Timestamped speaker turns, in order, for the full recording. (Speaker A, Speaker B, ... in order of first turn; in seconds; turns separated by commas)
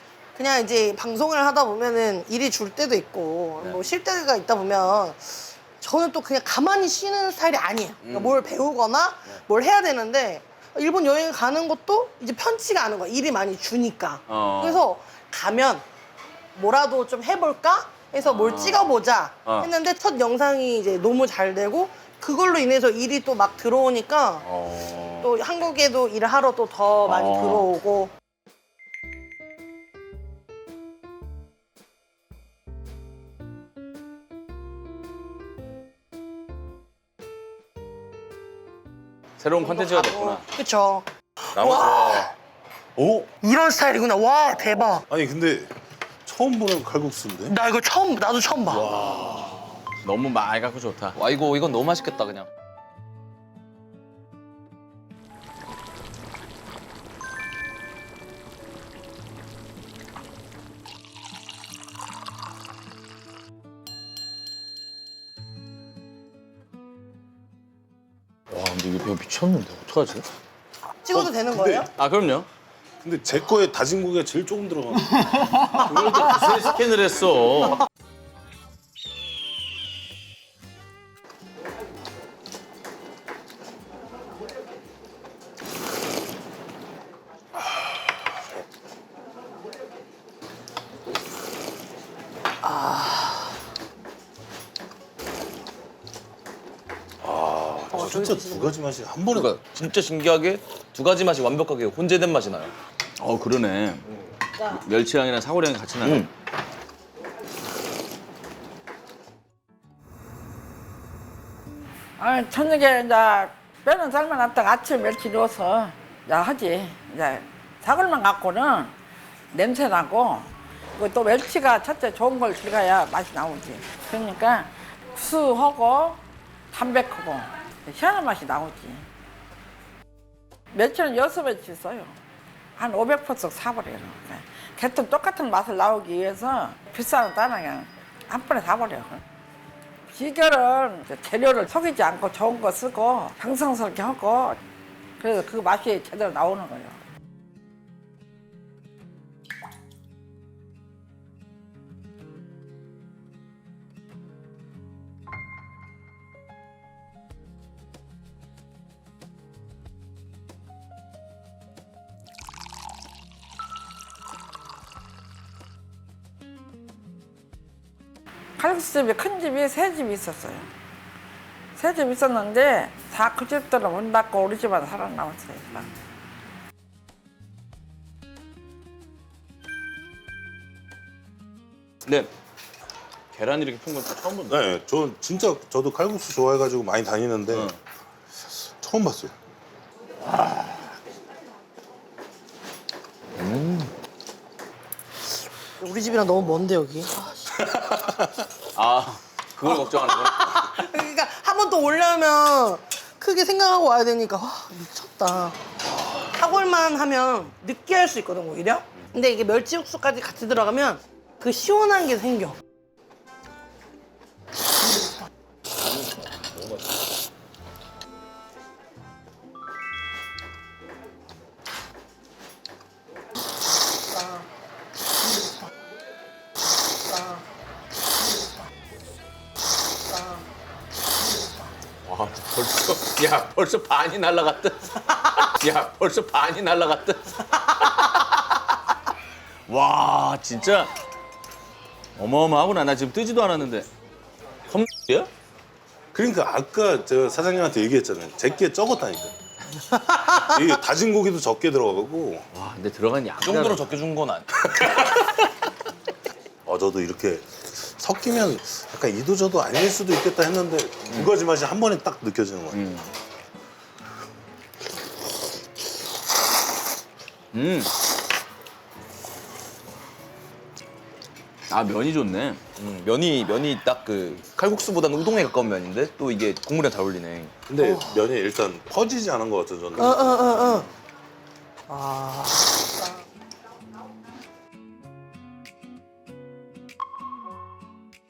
Speaker A: 0.3-15.8, Speaker B: 8.1-8.4, Speaker C: 14.3-14.8, Speaker A: 16.6-24.4, Speaker C: 18.2-18.9, Speaker C: 19.4-19.7, Speaker C: 24.4-25.3, Speaker A: 25.2-28.1, Speaker C: 27.0-27.7, Speaker C: 39.4-40.4, Speaker A: 39.6-42.3, Speaker D: 41.5-42.3, Speaker D: 43.0-43.3, Speaker A: 43.4-45.0, Speaker D: 45.1-45.7, Speaker D: 46.2-47.5, Speaker A: 47.5-48.9, Speaker D: 48.7-49.5, Speaker C: 50.0-51.2, Speaker B: 51.1-52.5, Speaker C: 68.5-70.2, Speaker A: 71.0-71.9, Speaker D: 71.1-71.9, Speaker C: 71.9-72.5, Speaker D: 73.0-75.4, Speaker C: 75.7-77.8, Speaker A: 92.6-93.3, Speaker D: 97.2-99.6, Speaker A: 97.9-98.7, Speaker B: 99.3-102.7, Speaker C: 103.2-104.0, Speaker C: 104.6-106.3, Speaker B: 106.0-106.3, Speaker E: 112.2-118.9, Speaker E: 119.5-126.2, Speaker E: 126.7-129.0, Speaker E: 130.7-132.2, Speaker E: 132.8-139.2, Speaker E: 140.1-144.6, Speaker E: 145.2-147.0, Speaker E: 168.6-170.7, Speaker E: 171.7-175.9, Speaker C: 183.3-184.6, Speaker D: 184.5-187.7, Speaker C: 187.5-187.8, Speaker D: 188.4-189.3, Speaker B: 193.4-193.8, Speaker A: 195.8-197.4, Speaker D: 197.7-198.2, Speaker C: 198.7-200.6, Speaker A: 199.6-205.6, Speaker A: 206.3-212.6, Speaker C: 232.0-238.2, Speaker C: 239.7-240.9, Speaker C: 242.2-243.9, Speaker C: 244.7-245.3, Speaker D: 246.1-249.3, Speaker D: 250.2-252.4, Speaker C: 252.5-253.9, Speaker B: 253.4-254.6, Speaker D: 254.7-255.1, Speaker D: 256.6-262.8, Speaker C: 262.7-263.1, Speaker C: 267.5-267.9, Speaker C: 271.7-272.6, Speaker B: 272.8-277.5, Speaker D: 277.7-280.8, Speaker A: 277.8-278.1, Speaker A: 279.9-280.9, Speaker A: 281.9-282.7